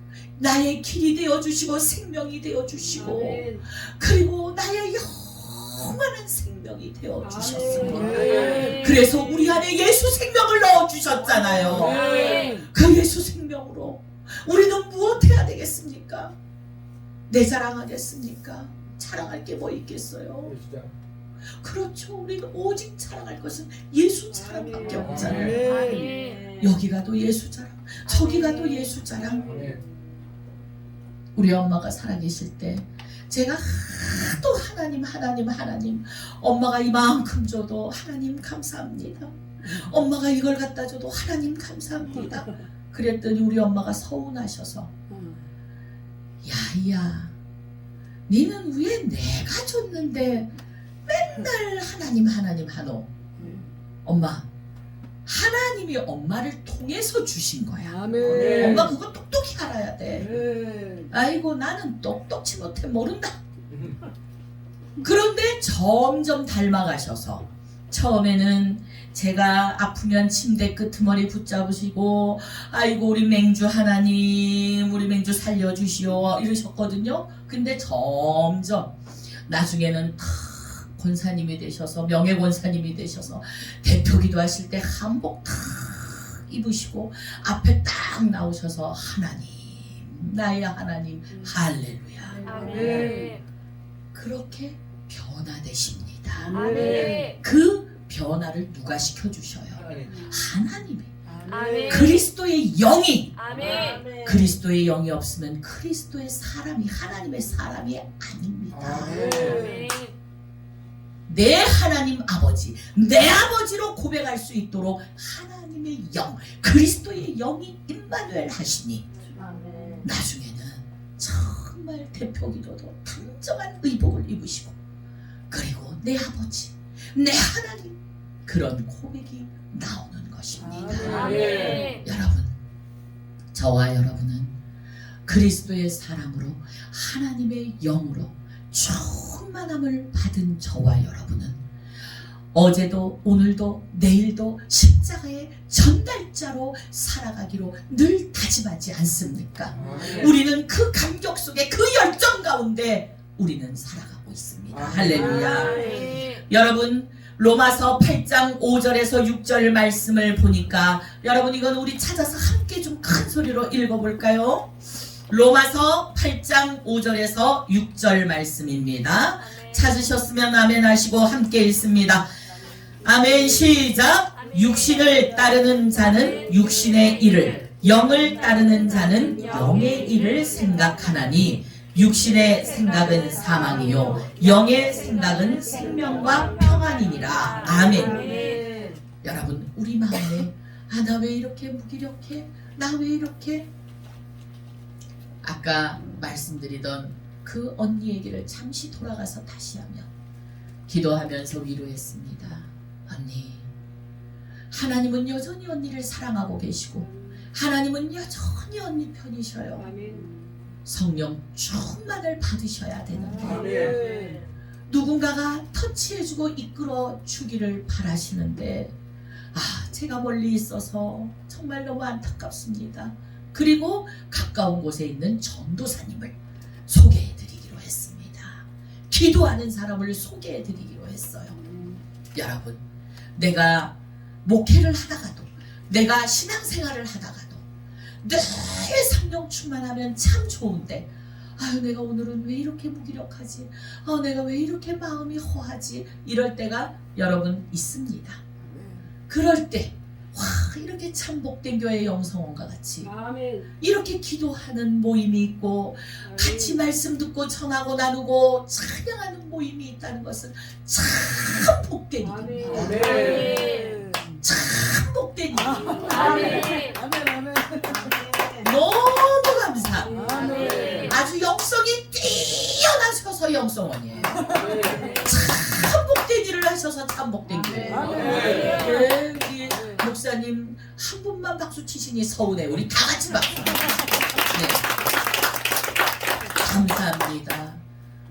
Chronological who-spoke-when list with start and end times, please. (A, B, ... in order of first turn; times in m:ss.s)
0:00.4-0:16.3 A
0:07.9-0:08.8 B
0:08.1-0:09.0 C
0:11.8-0:12.6 C
0:17.3-0:20.6 A
0:21.6-0:29.8 A
0:25.2-0:26.2 B
0:25.6-0:26.5 C
0:28.1-0:28.9 C
0:31.4-0:44.9 A
0:45.1-0:45.5 B
0:46.4-0:47.3 A
0:48.3-0:50.5 A
0:51.0-0:53.1 A
0:53.4-0:53.7 B
0:54.0-0:54.5 A
0:55.3-1:00.3 A
0:57.8-0:58.9 B
1:00.1-1:01.1 B
1:01.1-1:03.4 A
1:05.0-1:18.9 A
1:19.5-1:32.5 A
1:32.4-1:33.4 B
1:32.4-1:33.4 C
1:34.1-1:36.5 A
1:36.4-1:37.4 B
1:36.5-1:37.4 C
1:37.2-1:41.1 A
1:40.0-1:40.4 B
1:41.3-1:42.1 B
1:41.5-1:42.3 C
1:41.9-1:43.4 A
1:43.4-1:44.1 C
1:44.0-1:49.6 A
1:49.1-1:50.1 C
1:49.2-1:49.8 B
1:51.3-1:59.1 A
2:00.0-2:04.8 A
2:05.5-2:11.5 A
2:10.6-2:11.6 B
2:11.1-2:12.0 C
2:12.0-2:12.5 A
2:13.5-2:14.6 A
2:15.2-2:21.6 A
2:22.5-2:44.8 A
2:35.1-2:36.4 C
2:45.3-2:52.3 A
2:49.4-2:50.1 C
2:53.0-3:08.4 A
2:54.4-2:55.3 C
2:56.0-2:57.6 C
2:58.7-2:59.8 C
3:04.3-3:08.7 C
3:09.2-3:13.7 A
3:15.4-3:20.1 A
3:20.9-3:23.7 A
3:24.7-3:30.0 A
3:30.0-3:30.3 B
3:30.8-3:34.0 A
3:33.6-3:34.4 B
3:34.9-3:38.9 A
3:39.5-3:46.4 A
3:46.9-3:51.6 A
3:51.6-3:52.0 B
3:52.4-3:52.8 A
3:53.4-3:57.6 A
3:58.2-4:08.4 A
4:08.6-4:09.1 B
4:09.3-4:13.2 A
4:13.8-4:23.2 A
4:22.8-4:24.4 B
4:22.9-4:24.0 C
4:24.4-4:26.5 A
4:25.6-4:28.3 B
4:26.0-4:27.0 C
4:28.6-4:30.2 A
4:30.1-4:31.1 B
4:30.2-4:31.1 C
4:31.0-4:44.9 A
4:34.4-4:35.0 B
4:34.9-4:35.5 C
4:37.8-4:40.0 B
4:38.4-4:38.8 C
4:46.6-4:47.8 A